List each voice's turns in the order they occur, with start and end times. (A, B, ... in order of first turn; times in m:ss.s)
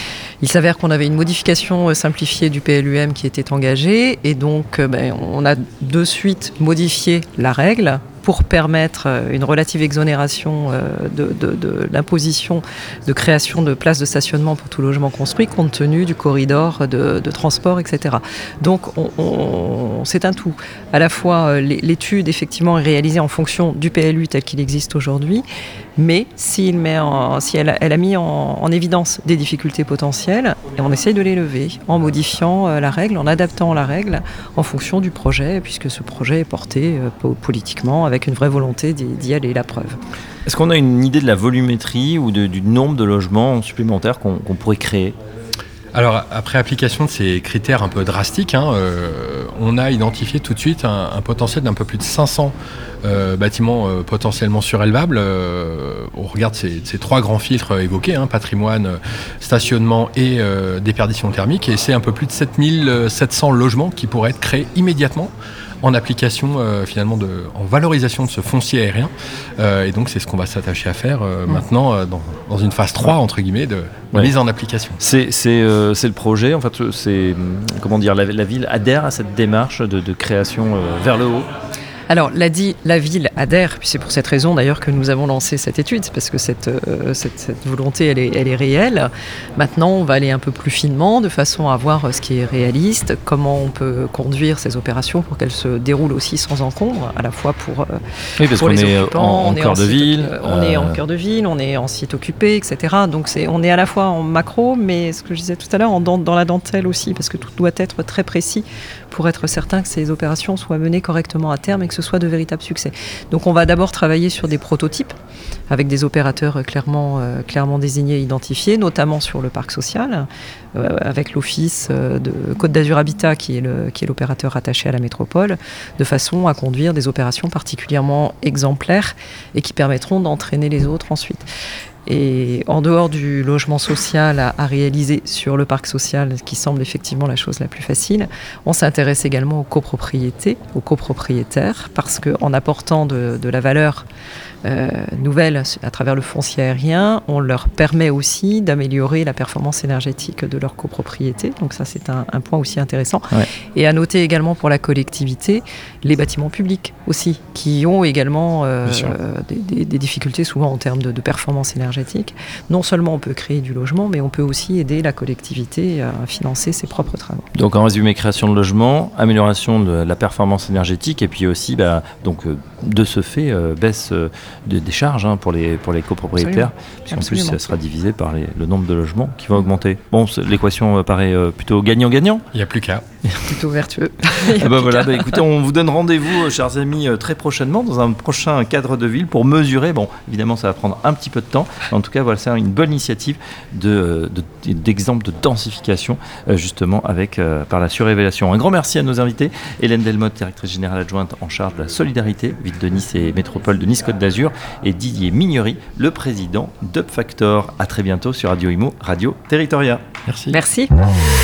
0:00.4-0:25.4 A
0:26.0-0:40.0 A
0:40.4-0:45.2 B
0:45.9-1:15.0 C
1:15.0-1:21.5 B
1:22.1-1:55.1 A
1:38.4-1:41.0 B
1:55.7-2:11.4 A
2:12.0-2:24.0 A
2:24.6-2:47.4 A
2:38.8-2:39.1 B
2:47.5-3:02.4 B
2:56.4-2:57.6 A
3:02.5-3:03.0 C
3:03.4-3:05.4 A
3:04.5-3:30.0 B
3:30.3-3:30.6 C
3:30.5-3:30.9 A